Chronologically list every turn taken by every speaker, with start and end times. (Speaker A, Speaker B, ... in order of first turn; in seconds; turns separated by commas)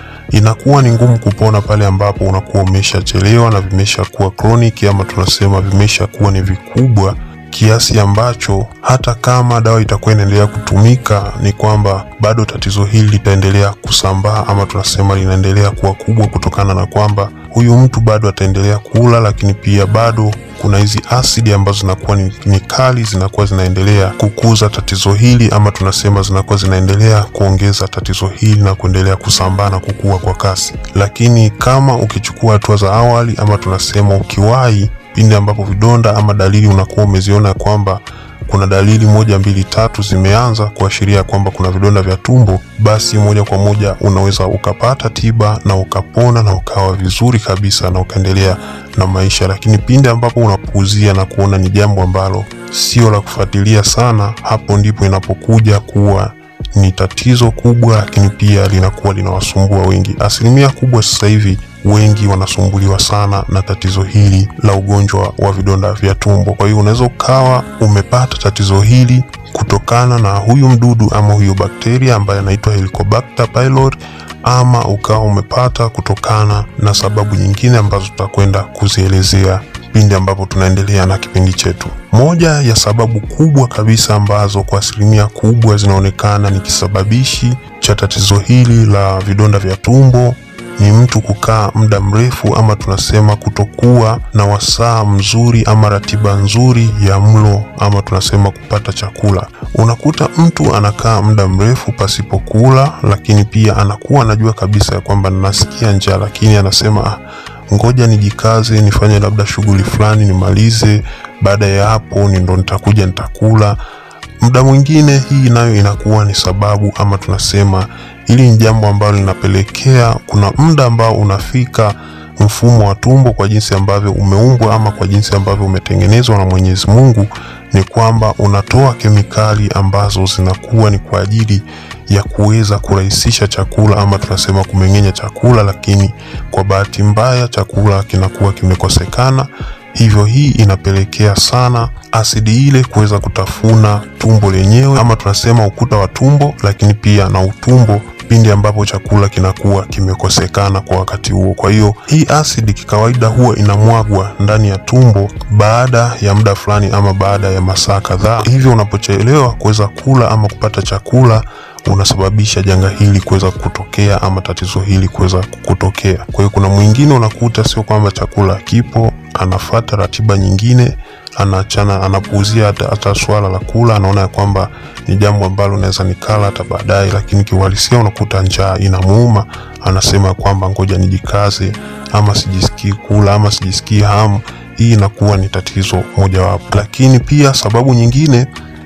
Speaker A: 0.3-113.8, Speaker A: 114.4-188.5